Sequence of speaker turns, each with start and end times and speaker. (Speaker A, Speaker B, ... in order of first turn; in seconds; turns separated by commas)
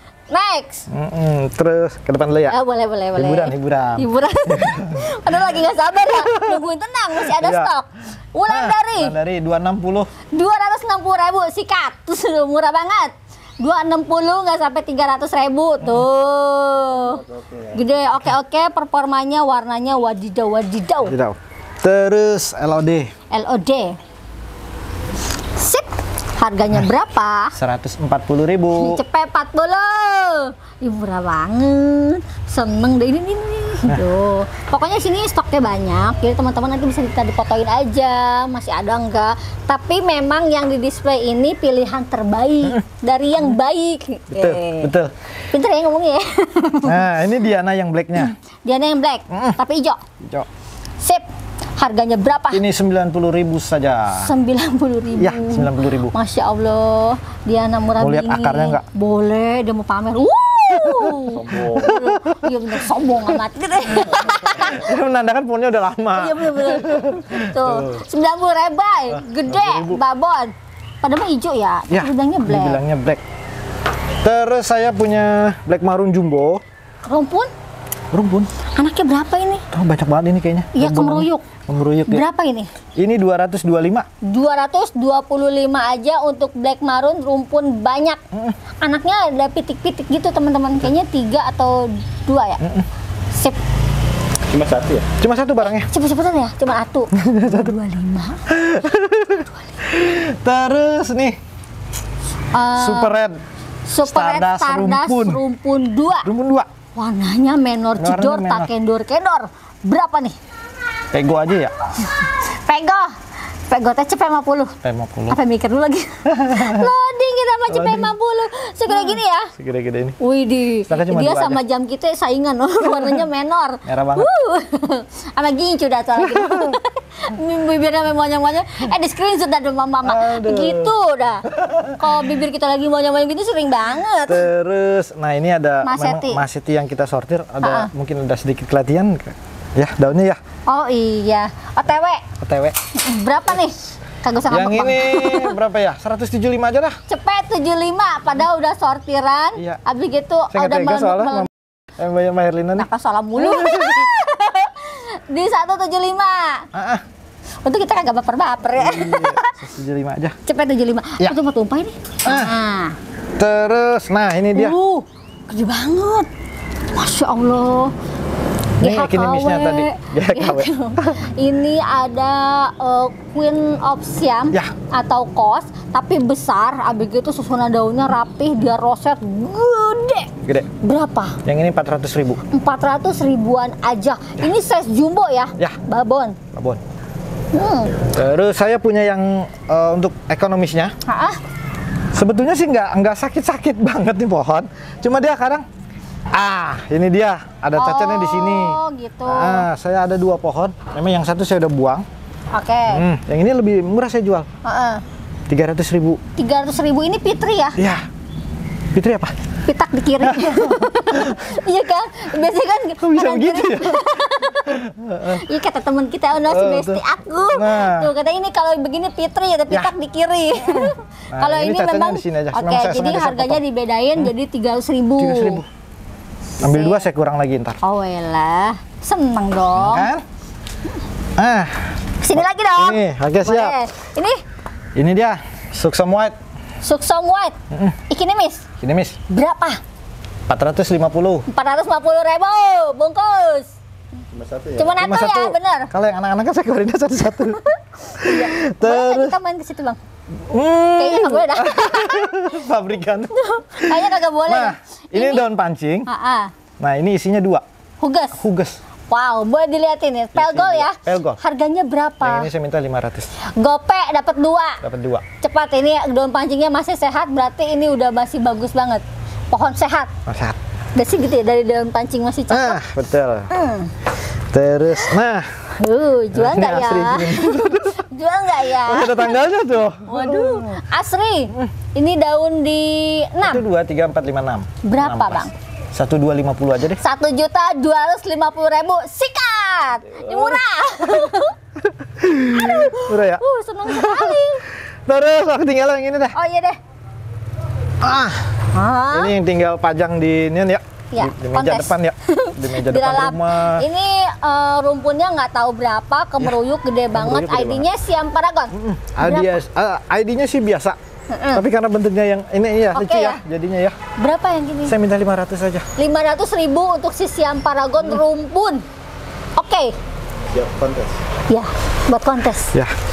Speaker A: 0.3-0.9, Speaker B: 0.9-2.6, Speaker A: 2.5-9.2, Speaker B: 3.1-5.2, Speaker B: 6.2-6.6, Speaker B: 7.2-7.7, Speaker B: 8.5-10.1, Speaker A: 10.3-21.2, Speaker C: 17.0-17.8, Speaker B: 21.1-23.1, Speaker A: 23.3-24.0, Speaker A: 25.6-27.6, Speaker B: 27.6-29.0, Speaker A: 28.8-44.9, Speaker B: 44.3-45.1, Speaker A: 45.5-47.1, Speaker B: 46.9-48.4, Speaker A: 48.2-50.0, Speaker B: 49.3-49.6, Speaker B: 50.2-50.5, Speaker A: 51.0-51.3, Speaker A: 51.8-52.6, Speaker B: 52.5-54.3, Speaker A: 54.1-64.9, Speaker B: 55.2-56.1, Speaker B: 58.0-58.9, Speaker B: 60.8-62.5, Speaker C: 61.3-61.9, Speaker B: 64.5-68.0, Speaker A: 66.1-72.8, Speaker B: 69.1-70.0, Speaker B: 71.9-73.2, Speaker B: 74.2-76.6, Speaker A: 77.0-77.5, Speaker B: 78.1-78.5, Speaker A: 78.7-79.7, Speaker B: 79.7-82.3, Speaker A: 80.7-81.5, Speaker A: 82.1-82.7, Speaker B: 83.0-84.1, Speaker A: 84.2-88.2, Speaker A: 88.8-92.6, Speaker B: 92.6-92.9, Speaker A: 93.3-93.6, Speaker C: 94.5-95.1, Speaker B: 95.2-95.9, Speaker A: 95.8-98.5, Speaker B: 97.2-97.7, Speaker B: 98.5-101.4, Speaker A: 102.5-103.2, Speaker B: 102.8-103.4, Speaker A: 103.9-106.3, Speaker B: 104.0-105.4, Speaker B: 106.2-106.7, Speaker A: 107.0-110.4, Speaker B: 108.0-108.7, Speaker B: 111.1-111.7, Speaker A: 112.1-113.2, Speaker A: 113.7-114.8, Speaker B: 114.8-115.4, Speaker A: 115.3-119.5, Speaker B: 116.3-116.9, Speaker B: 117.7-118.1, Speaker B: 118.9-120.2, Speaker A: 120.2-134.5, Speaker B: 120.9-121.6, Speaker B: 122.9-123.2, Speaker B: 123.8-124.3, Speaker B: 126.2-126.8, Speaker B: 130.0-130.9, Speaker B: 131.5-132.2, Speaker B: 134.3-140.4, Speaker A: 135.8-136.4, Speaker A: 137.6-137.9, Speaker A: 140.7-142.2, Speaker B: 142.4-142.8, Speaker A: 142.9-145.6, Speaker B: 144.5-147.0, Speaker A: 147.1-151.5, Speaker B: 149.6-149.8, Speaker B: 150.5-154.1, Speaker A: 152.8-156.7, Speaker B: 156.7-157.0, Speaker A: 157.7-159.5, Speaker B: 158.8-160.4, Speaker A: 160.5-163.0, Speaker B: 162.2-162.6, Speaker B: 163.4-164.8, Speaker A: 164.5-166.3, Speaker A: 166.9-167.9, Speaker B: 168.8-171.2, Speaker A: 168.8-181.4, Speaker B: 180.4-180.7, Speaker B: 181.4-182.4, Speaker A: 182.5-186.4, Speaker B: 186.5-186.8, Speaker A: 187.5-188.1, Speaker B: 188.0-190.9, Speaker A: 191.1-191.4, Speaker B: 192.1-195.7, Speaker B: 196.3-202.1, Speaker A: 197.8-199.7, Speaker A: 202.5-203.0, Speaker B: 202.9-204.5, Speaker A: 204.6-205.0, Speaker B: 205.5-206.2, Speaker A: 206.4-207.8, Speaker B: 207.8-208.1, Speaker B: 208.9-209.3, Speaker A: 209.7-225.6, Speaker B: 210.2-211.5, Speaker B: 213.0-215.4, Speaker B: 216.5-218.1, Speaker B: 220.6-223.6, Speaker B: 225.2-225.7, Speaker A: 226.6-227.0, Speaker B: 226.6-227.8, Speaker A: 227.8-230.1, Speaker B: 229.8-230.2, Speaker B: 231.4-233.8, Speaker A: 232.2-234.4, Speaker B: 235.0-236.4, Speaker A: 236.8-237.6, Speaker B: 237.7-238.0, Speaker A: 238.1-238.7, Speaker B: 238.8-239.2, Speaker A: 239.3-239.8, Speaker B: 240.5-241.4, Speaker A: 241.5-243.7, Speaker C: 244.3-244.9, Speaker A: 244.8-245.9, Speaker B: 245.0-247.6, Speaker A: 247.7-250.0, Speaker B: 248.1-249.4, Speaker B: 250.5-256.1, Speaker A: 251.0-252.5, Speaker A: 253.3-255.5, Speaker A: 256.1-256.5, Speaker B: 256.8-257.6, Speaker A: 258.0-258.4, Speaker B: 258.4-258.8, Speaker A: 259.1-262.5, Speaker B: 260.4-261.4, Speaker B: 262.2-263.3, Speaker A: 263.4-264.8, Speaker B: 264.8-265.2, Speaker A: 265.4-270.1, Speaker B: 270.2-270.6, Speaker A: 271.0-272.8, Speaker B: 272.5-273.5, Speaker A: 273.5-273.9, Speaker B: 274.5-275.7, Speaker A: 275.8-279.5, Speaker B: 276.3-278.1, Speaker B: 278.7-280.9, Speaker A: 280.1-283.6, Speaker B: 283.4-287.0, Speaker A: 284.8-285.5, Speaker A: 287.0-291.6, Speaker B: 290.2-290.6, Speaker B: 291.9-296.4, Speaker A: 292.5-294.6, Speaker A: 296.3-296.8, Speaker B: 298.0-298.6, Speaker A: 298.7-299.3, Speaker B: 299.1-303.9, Speaker A: 301.1-309.6, Speaker B: 307.1-307.9, Speaker B: 308.7-311.0, Speaker A: 311.3-311.6, Speaker B: 311.5-314.0, Speaker A: 312.9-313.4, Speaker A: 314.2-314.9, Speaker B: 314.9-315.9, Speaker A: 316.0-318.8, Speaker A: 319.6-319.9, Speaker C: 320.5-321.1, Speaker A: 321.5-322.8